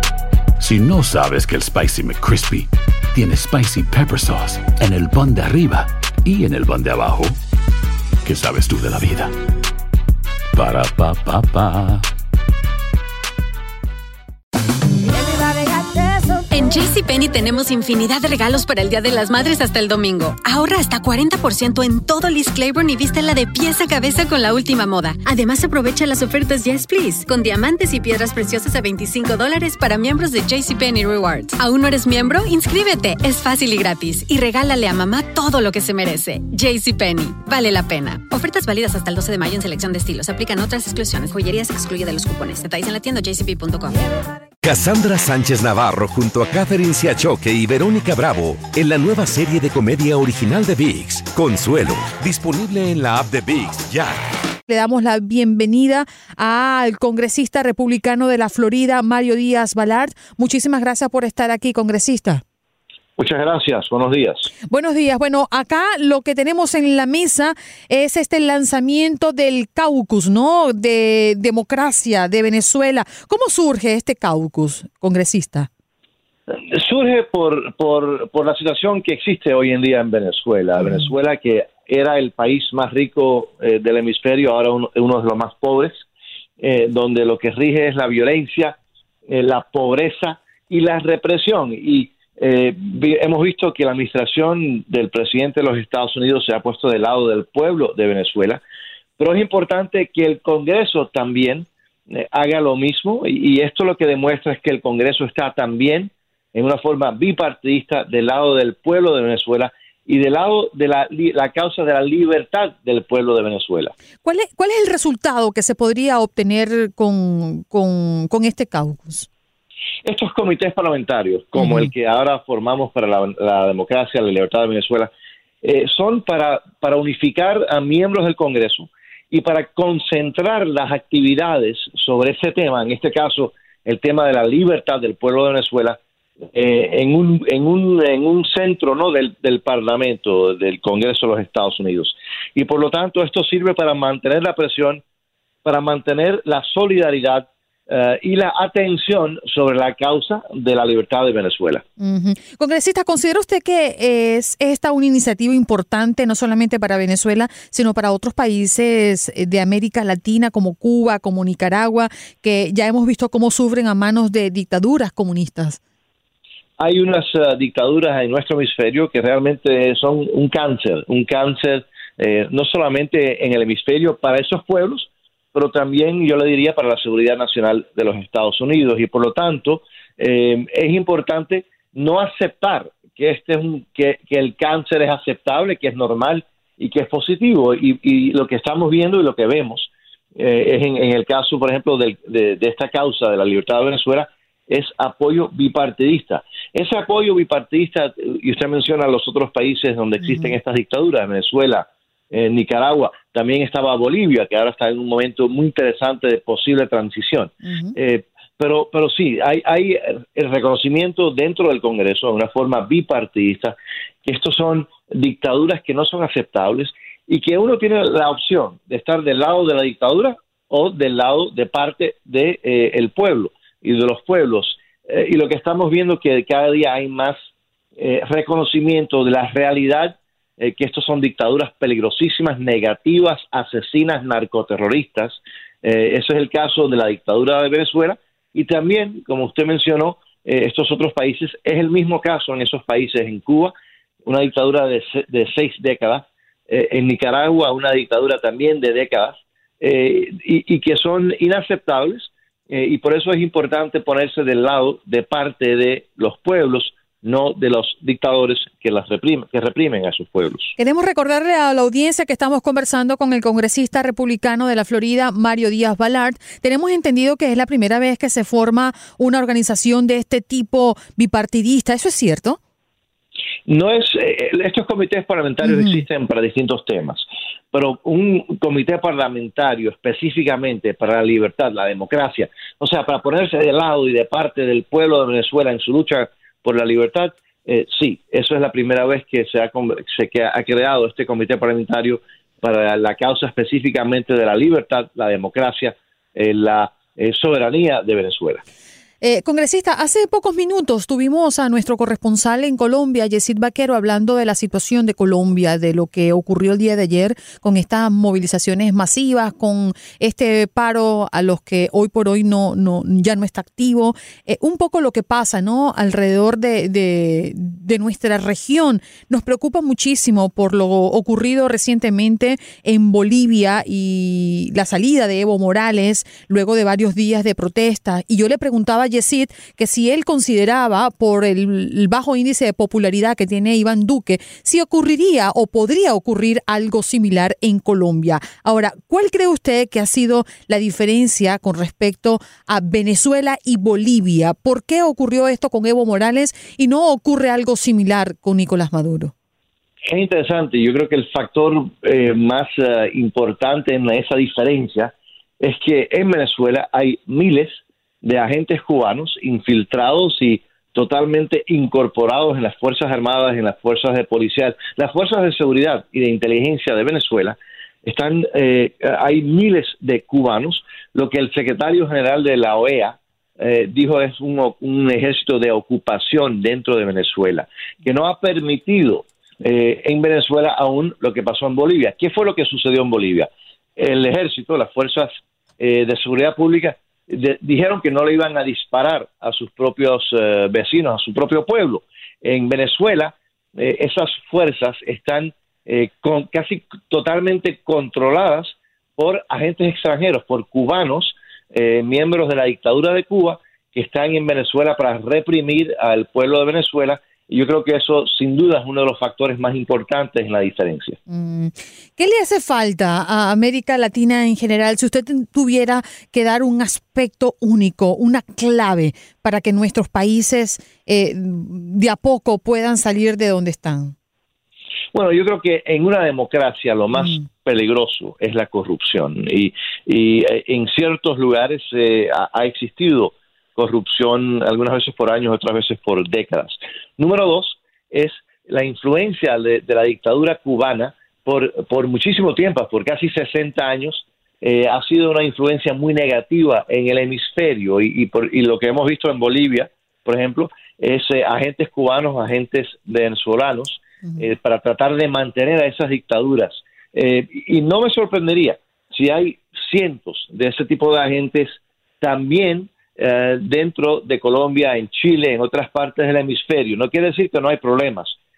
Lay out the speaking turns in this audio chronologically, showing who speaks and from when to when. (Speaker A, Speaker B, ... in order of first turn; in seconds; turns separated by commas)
Speaker A: 0.6-7.3, Speaker A: 8.2-9.3, Speaker A: 10.6-12.0, Speaker B: 15.4-44.0, Speaker C: 44.6-54.2, Speaker D: 54.7-62.4, Speaker E: 63.2-64.5, Speaker D: 64.7-75.7, Speaker E: 76.5-86.0, Speaker E: 86.6-88.8, Speaker E: 89.3-98.6, Speaker E: 99.2-113.9, Speaker D: 114.2-119.3, Speaker E: 120.0-125.1, Speaker E: 125.6-136.0, Speaker E: 136.5-145.0, Speaker E: 145.7-151.8, Speaker D: 152.0-165.8, Speaker E: 166.8-227.4, Speaker D: 200.2-200.5, Speaker D: 207.7-207.9, Speaker E: 228.0-243.7, Speaker E: 244.3-260.7, Speaker D: 260.8-272.6, Speaker E: 273.6-298.6, Speaker D: 275.6-276.0, Speaker D: 299.2-349.3, Speaker E: 350.1-411.2, Speaker D: 411.3-424.1, Speaker E: 425.1-468.4